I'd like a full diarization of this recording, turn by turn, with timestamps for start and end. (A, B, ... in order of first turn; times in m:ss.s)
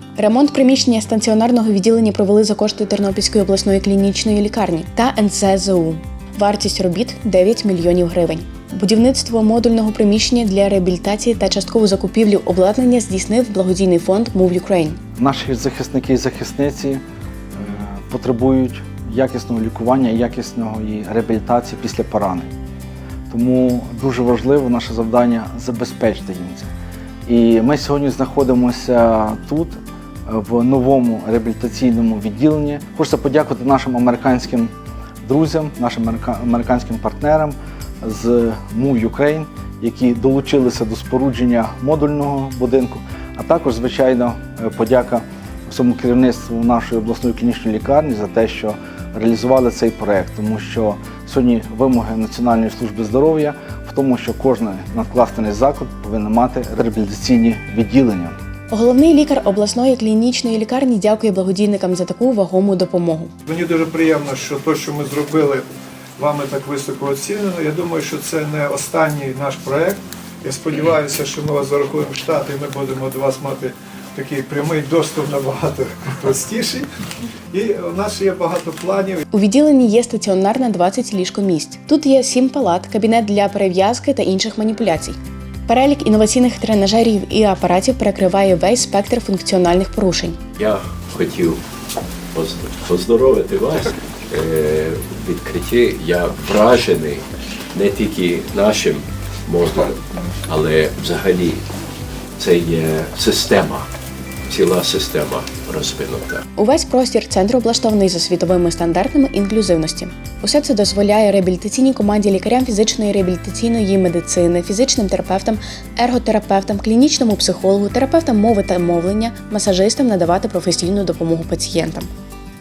0:00.2-0:15.0 A
0:15.2-0:17.0 B
0:17.6-0:22.5 B
0:23.3-0:26.7 B
0:27.3-0:34.7 B
0:35.2-0:58.4 B
0:58.7-1:03.3 A
1:03.5-1:05.7 C
1:06.2-1:16.9 C
1:17.5-1:19.2 C
1:19.3-1:25.2 A
1:25.7-1:30.4 A
1:30.6-1:31.6 D
1:32.3-1:41.6 D
1:42.4-1:43.9 D
1:44.5-1:46.4 D
1:46.6-2:02.1 A